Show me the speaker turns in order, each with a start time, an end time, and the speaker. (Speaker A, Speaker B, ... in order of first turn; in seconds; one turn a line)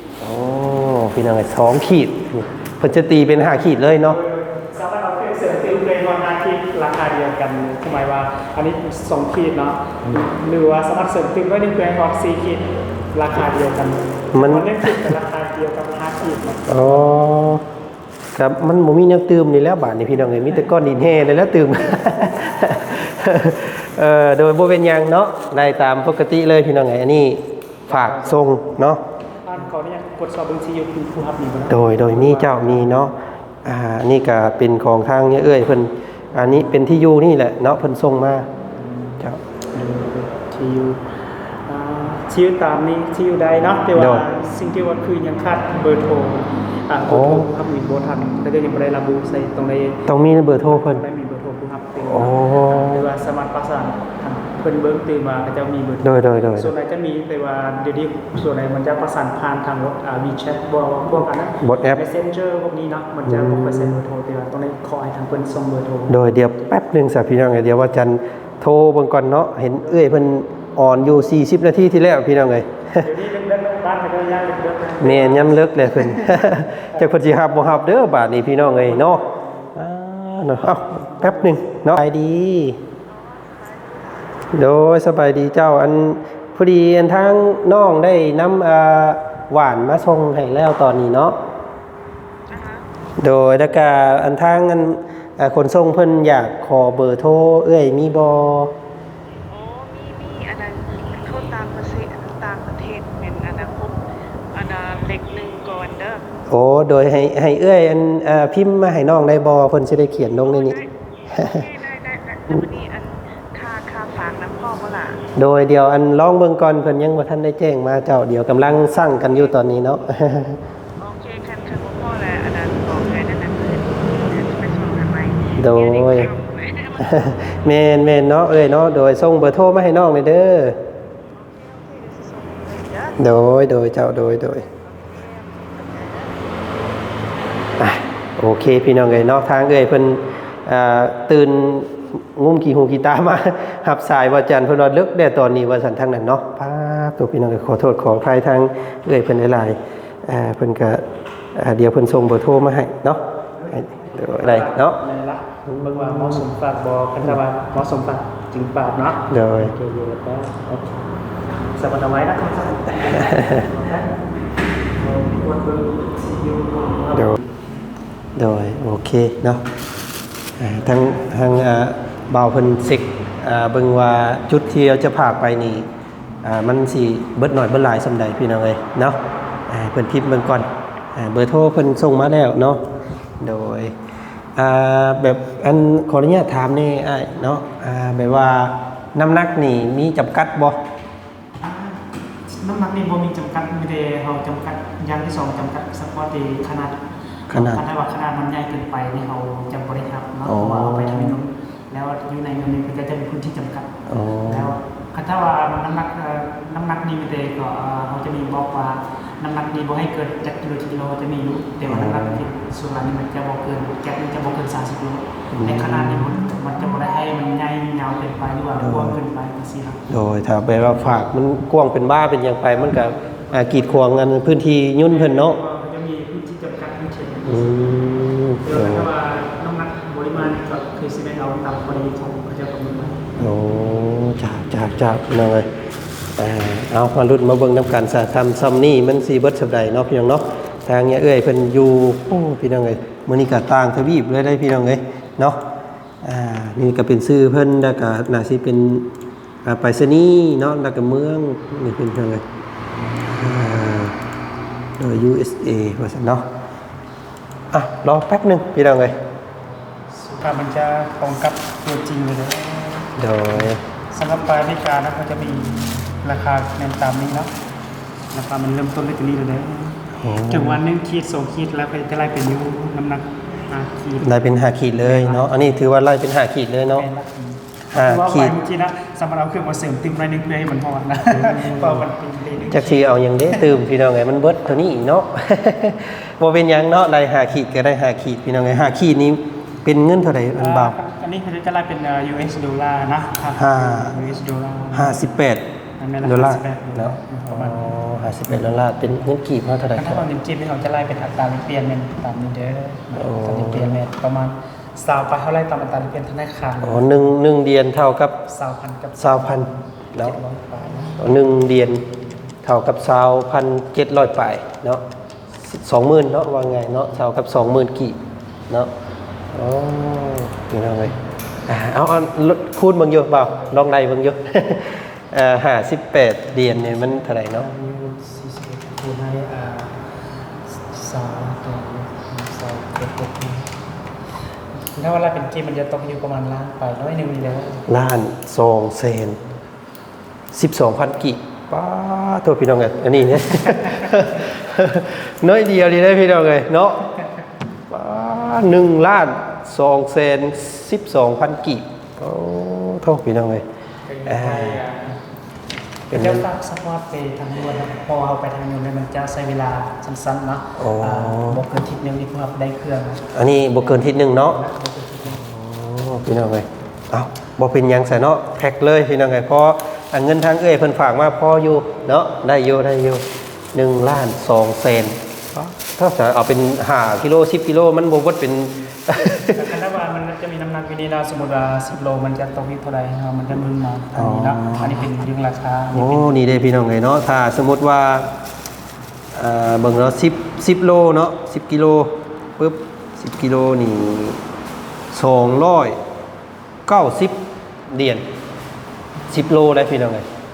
Speaker A: 0.2-4.2
Speaker B: 4.0-17.2
Speaker A: 14.3-15.1
Speaker A: 16.7-17.6
Speaker A: 18.4-29.0
Speaker B: 27.9-28.5
Speaker B: 29.4-32.9
Speaker A: 31.7-38.5
Speaker B: 38.9-39.2
Speaker B: 39.7-66.7
Speaker A: 44.0-44.2
Speaker A: 47.1-47.5
Speaker A: 50.1-51.0
Speaker A: 52.0-53.0
Speaker A: 56.0-56.7
Speaker A: 61.6-62.0
Speaker A: 63.3-64.0
Speaker A: 66.1-73.1
Speaker B: 73.0-76.3
Speaker A: 75.0-79.2
Speaker B: 78.4-79.7
Speaker A: 79.8-82.8
Speaker B: 81.0-81.8
Speaker C: 83.0-84.5
Speaker A: 84.5-91.3
Speaker C: 92.5-92.8
Speaker A: 93.2-98.7
Speaker C: 99.5-104.0
Speaker C: 104.5-106.3
Speaker A: 106.5-110.8
Speaker C: 110.4-115.2
Speaker A: 111.3-111.7
Speaker A: 115.4-120.6
Speaker C: 121.0-127.6
Speaker A: 125.6-126.3
Speaker A: 127.0-130.8
Speaker C: 131.3-137.7
Speaker A: 133.2-134.6
Speaker A: 137.8-151.0
Speaker A: 151.5-155.0
Speaker B: 153.6-161.0
Speaker A: 155.7-156.4
Speaker A: 159.3-159.7
Speaker B: 161.8-164.1
Speaker A: 163.1-163.7
Speaker B: 165.0-167.5
Speaker A: 168.4-169.6
Speaker A: 170.6-175.9
Speaker A: 176.4-182.9
Speaker A: 183.4-183.9
Speaker A: 184.6-190.8
Speaker B: 191.6-220.0
Speaker A: 197.5-197.8
Speaker A: 200.5-201.4
Speaker A: 204.1-204.8
Speaker A: 211.9-212.4
Speaker A: 215.5-216.3
Speaker A: 218.8-219.2
Speaker A: 220.1-225.6
Speaker B: 223.1-224.1
Speaker B: 225.1-227.8
Speaker A: 227.5-229.1
Speaker B: 228.6-233.3
Speaker A: 233.4-235.7
Speaker A: 236.4-245.6
Speaker A: 246.2-249.1
Speaker A: 249.6-252.4
Speaker A: 253.3-254.2
Speaker A: 255.0-256.5
Speaker A: 257.7-259.1
Speaker B: 260.1-267.5
Speaker A: 263.2-263.8
Speaker B: 268.3-274.3
Speaker A: 270.1-270.8
Speaker A: 274.2-277.1
Speaker B: 275.0-275.8
Speaker B: 276.9-283.7
Speaker A: 277.9-278.5
Speaker A: 281.3-282.1
Speaker A: 282.7-291.0
Speaker B: 290.6-295.2
Speaker A: 293.6-294.1
Speaker A: 294.9-295.7
Speaker B: 296.0-297.9
Speaker A: 296.2-300.2
Speaker B: 299.9-307.1
Speaker A: 303.2-304.0
Speaker A: 306.8-308.4
Speaker B: 308.4-311.2
Speaker A: 309.2-310.4
Speaker A: 311.2-312.1
Speaker A: 312.6-315.0
Speaker A: 315.6-318.9
Speaker A: 319.5-321.1
Speaker A: 321.7-327.7
Speaker B: 326.5-330.0
Speaker B: 330.7-333.7
Speaker B: 334.9-337.9
Speaker A: 337.9-339.4
Speaker A: 340.5-347.1
Speaker B: 343.6-344.1
Speaker A: 347.9-353.6
Speaker B: 354.1-355.1
Speaker A: 354.2-354.9
Speaker A: 356.1-356.4
Speaker B: 356.1-363.3
Speaker A: 360.8-361.6
Speaker A: 363.3-364.6
Speaker B: 363.8-365.5
Speaker A: 365.4-379.8
Speaker B: 379.4-386.4
Speaker A: 384.2-385.0
Speaker A: 385.9-388.3
Speaker A: 389.3-394.4
Speaker A: 395.1-396.0
Speaker A: 396.9-398.3
Speaker A: 399.3-400.2